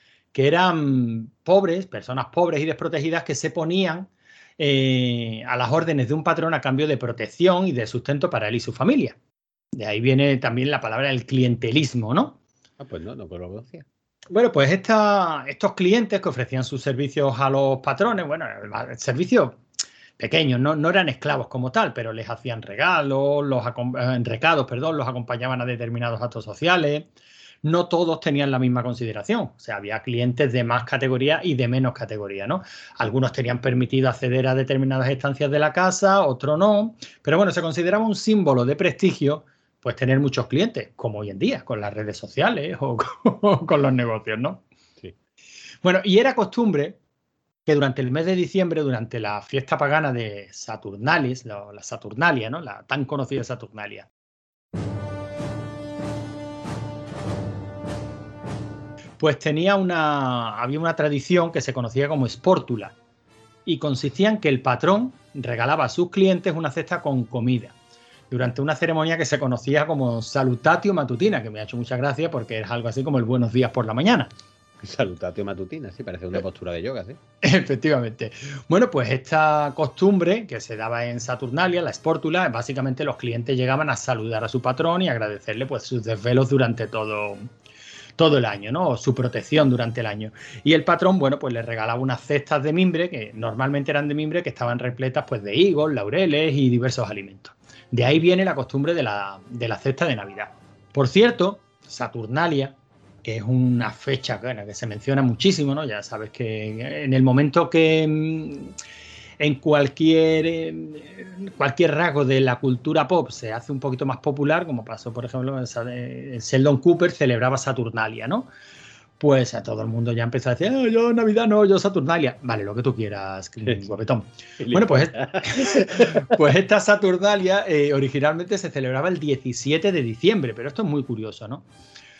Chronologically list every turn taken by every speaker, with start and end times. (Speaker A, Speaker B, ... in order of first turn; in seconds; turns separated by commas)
Speaker A: 0.3-9.2, Speaker A: 9.8-12.4, Speaker B: 12.8-13.9, Speaker A: 14.3-19.6, Speaker A: 20.2-27.1, Speaker A: 27.6-44.6, Speaker A: 45.8-47.0, Speaker A: 47.7-54.1, Speaker A: 59.2-63.0, Speaker A: 63.7-67.8, Speaker A: 68.3-74.3, Speaker B: 74.8-77.2, Speaker A: 77.4-87.5, Speaker A: 88.2-108.7, Speaker A: 109.4-118.5, Speaker A: 119.2-131.7, Speaker B: 124.6-126.4